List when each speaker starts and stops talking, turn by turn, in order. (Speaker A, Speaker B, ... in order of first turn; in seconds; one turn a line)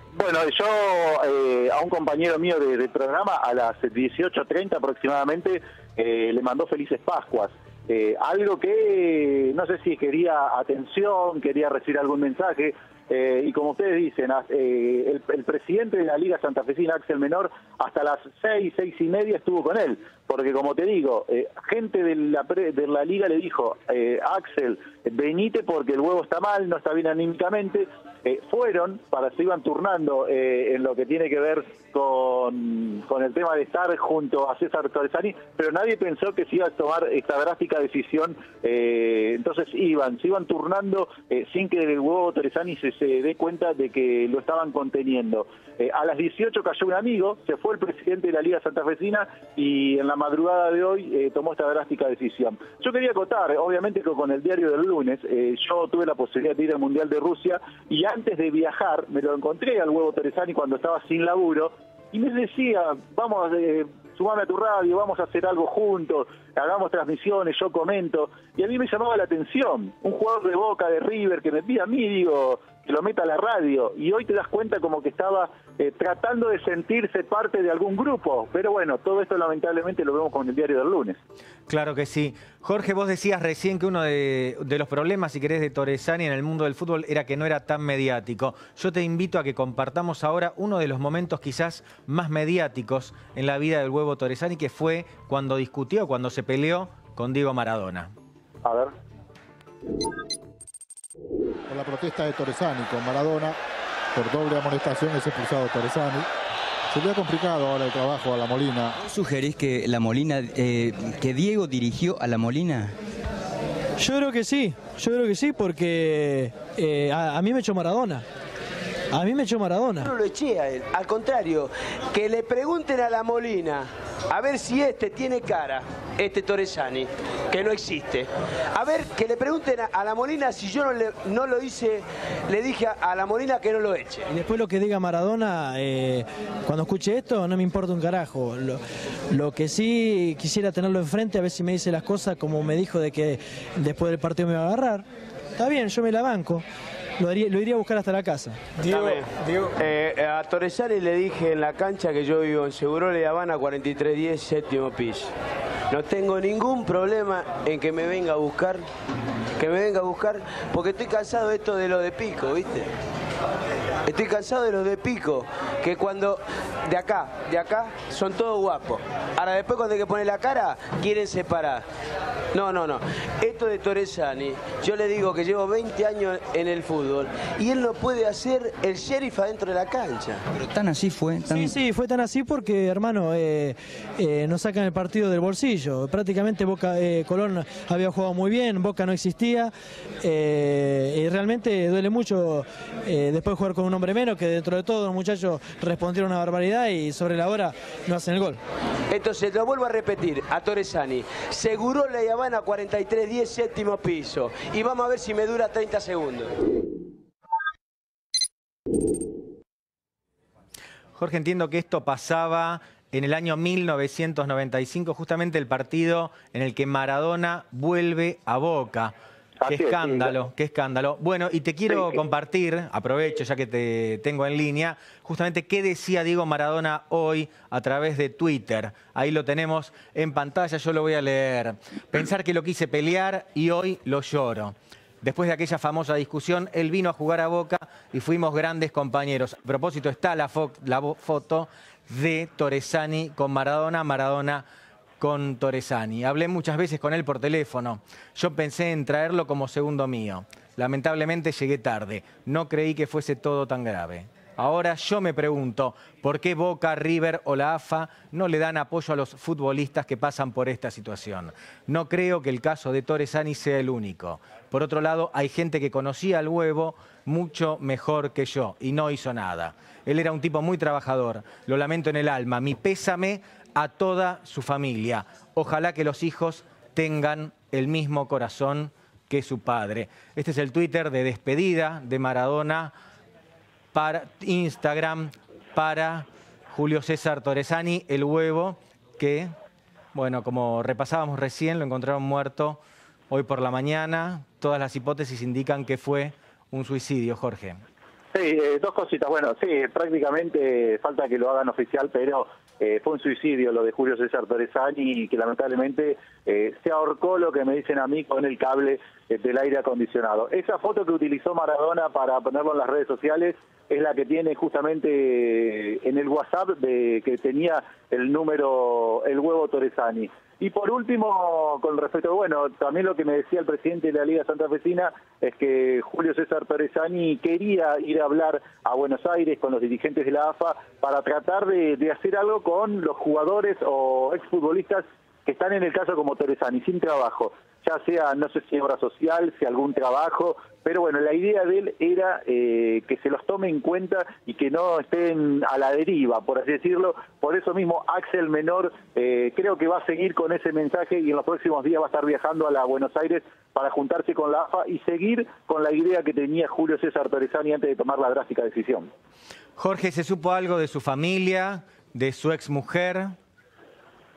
Speaker A: 0.1-81.2
Speaker B: 81.7-98.1
Speaker A: 98.6-98.9
Speaker C: 101.7-103.6
Speaker C: 104.1-106.3
Speaker C: 106.9-109.0
Speaker D: 109.0-113.0
Speaker E: 114.0-118.2
Speaker E: 119.1-120.1
Speaker F: 120.0-134.3
Speaker E: 134.3-145.1
Speaker E: 145.6-146.7
Speaker E: 147.2-149.2
Speaker F: 148.8-155.3
Speaker F: 155.9-158.9
Speaker F: 159.6-163.0
Speaker F: 164.1-171.9
Speaker F: 172.5-180.5
Speaker D: 180.6-181.8
Speaker E: 181.4-189.7
Speaker E: 190.2-198.6
Speaker F: 199.1-206.6
Speaker B: 211.2-219.1
Speaker A: 219.6-220.3
Speaker B: 219.7-244.7
Speaker B: 245.2-282.9
Speaker B: 283.9-289.5
Speaker B: 290.1-297.8
Speaker A: 298.3-359.1
Speaker B: 359.8-363.3